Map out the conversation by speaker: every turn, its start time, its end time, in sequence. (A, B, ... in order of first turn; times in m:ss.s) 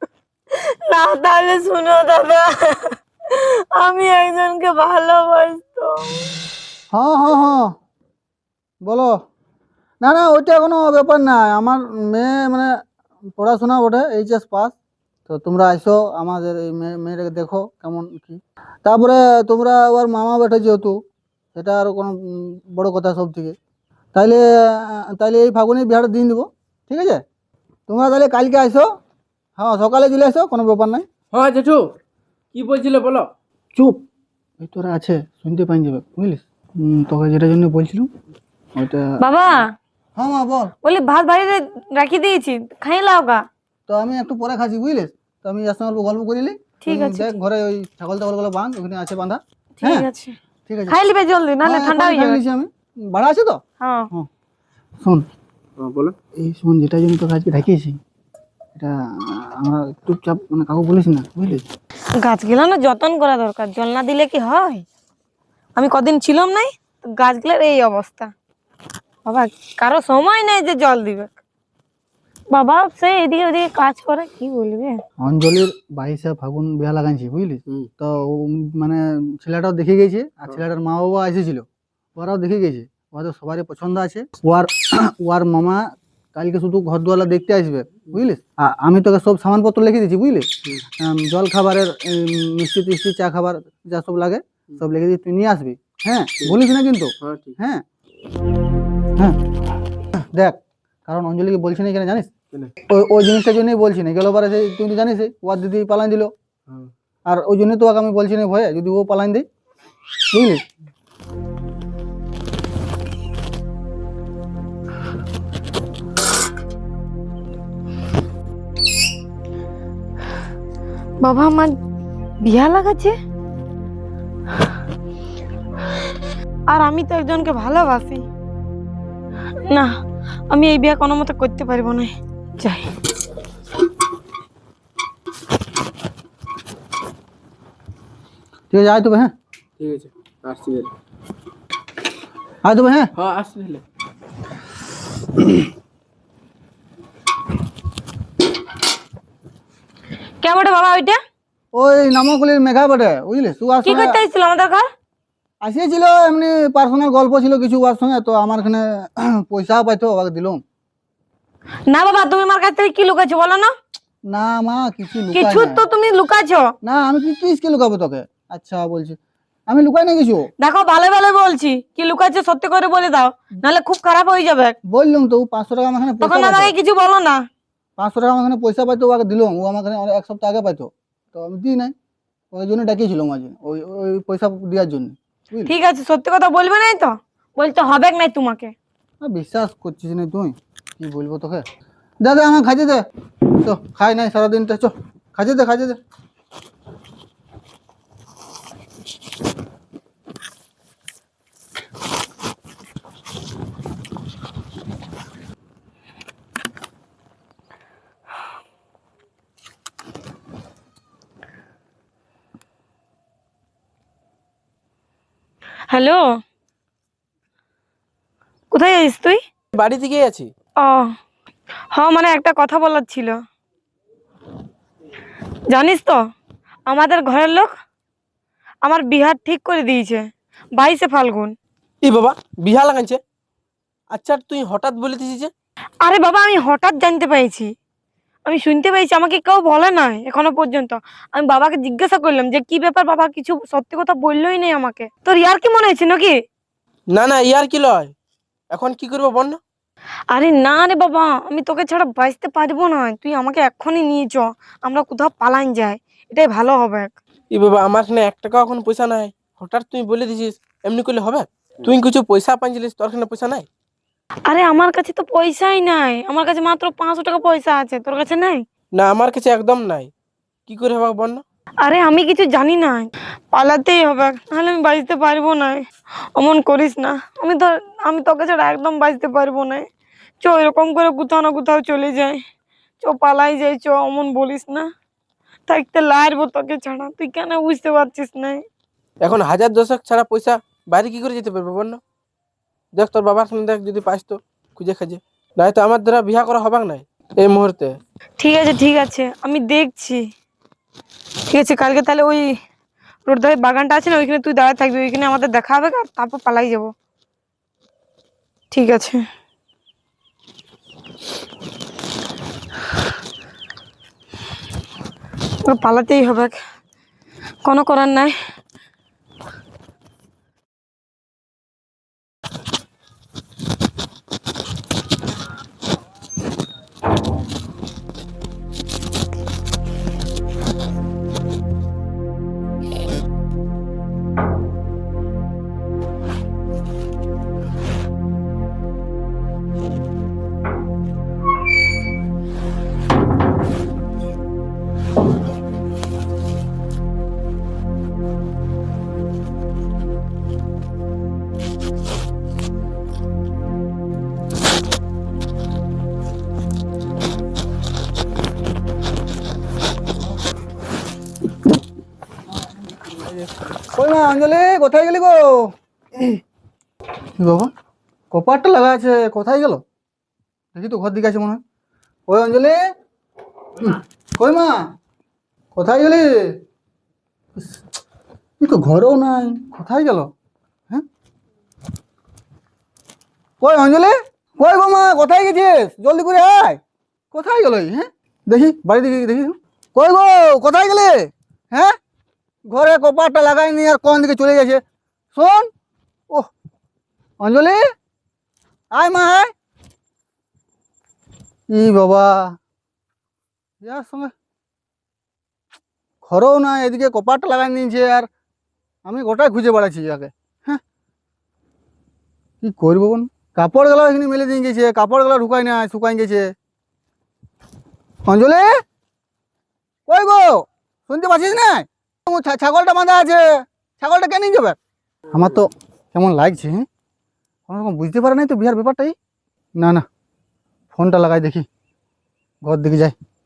0:00.5-0:06.3 A
0:06.9-0:07.7 B
0:08.8-0:09.2 B
0:10.0-0:12.8 B
0:13.4-0:14.8 B
0:15.3-0:21.0 B
0:21.5-0:23.6 B
0:24.1-0:27.2 B
0:27.9-0:28.9 B
0:29.6-0:31.0 B
0:31.3-0:31.9 C
0:32.5-0:33.3 C
0:33.7-0:34.0 B
0:34.6-0:38.1 B
0:38.8-0:39.1 B
0:39.2-0:39.7 A
0:40.2-0:40.7 B
0:40.8-0:43.4 A
0:43.9-0:50.1 B
0:46.8-0:47.4 A
0:49.8-0:50.4 A
0:50.7-0:51.0 B
0:50.9-0:52.4 A
0:51.6-0:53.6 B
0:53.8-0:54.1 A
0:55.8-0:56.2 C
0:56.3-0:58.0 B
0:58.7-1:01.6 B
1:02.2-1:04.8 A
1:05.7-1:08.3 A
1:09.2-1:11.3 A
1:12.5-1:15.0 A
1:15.2-1:37.8 B
1:37.2-1:37.6 C
1:40.1-1:42.3 B
1:42.8-1:46.3 B
1:47.3-1:49.4 B
1:50.3-1:50.6 B
2:01.2-2:01.8 A
2:02.4-2:03.1 A
2:06.7-2:08.2 A
2:10.5-2:12.9 A
2:18.7-2:19.3 B
2:19.8-2:20.9 C
2:22.6-2:23.1 B
2:23.2-2:23.8 C
2:30.4-2:31.2 A
2:31.7-2:34.2 B
2:33.8-2:34.9 A
2:35.6-2:40.6 B
2:41.9-2:43.7 A
2:44.3-2:45.8 B
2:45.3-2:46.7 A
2:46.8-2:50.5 B
2:50.6-2:54.8 A
2:54.8-2:56.7 B
2:56.2-2:57.4 A
2:58.0-3:01.9 B
3:02.5-3:05.7 B
3:05.7-3:08.7 A
3:09.2-3:11.6 B
3:12.2-3:16.0 B
3:35.9-3:36.2 A
3:38.7-3:39.4 A
3:39.7-3:40.5 C
3:40.8-3:41.1 A
3:41.9-3:43.4 A
3:45.7-3:46.2 A
3:46.9-3:47.7 A
3:48.8-3:51.5 A
3:52.0-3:53.2 C
3:54.1-3:55.5 C
3:56.0-3:57.7 A
3:58.4-4:06.4 A
4:07.1-4:08.1 C
4:08.7-4:09.6 C
4:10.3-4:17.1 A
4:17.5-4:23.7 C
4:24.5-4:28.6 A
4:28.9-4:30.1 C
4:30.7-4:31.4 C
4:31.8-4:35.8 A
4:36.4-4:39.9 A
4:40.4-4:42.4 A
4:43.0-4:44.9 A
4:45.7-4:48.6 A
4:49.2-4:52.0 C
4:53.0-4:58.0 C
4:58.4-5:00.2 A
5:01.5-5:02.5 A
5:03.2-5:06.9 A
5:08.7-5:09.2 A
5:15.6-5:16.6 A
5:17.6-5:18.3 A
6:03.1-6:06.4 B
6:07.4-6:07.7 B
6:08.3-6:09.8 B
6:10.7-6:11.6 B
6:12.3-6:12.8 B
6:13.8-6:14.9 B
6:15.7-6:16.6 B
6:17.5-6:17.8 B
6:18.6-6:20.3 B
6:23.6-6:26.8 B
6:27.3-6:32.0 B
6:32.7-6:34.8 B
6:35.3-6:35.7 B
6:37.4-6:37.8 B
6:38.9-6:39.5 B
6:41.7-6:42.6 B
6:43.8-6:44.3 B
6:46.2-6:48.3 B
6:49.0-6:50.8 B
6:52.6-6:56.5 B
6:58.3-6:58.7 B
7:00.1-7:04.8 B
7:05.3-7:06.9 B
7:07.7-7:09.2 B
7:09.8-7:10.0 B
7:10.9-7:11.6 B
7:12.6-7:13.2 B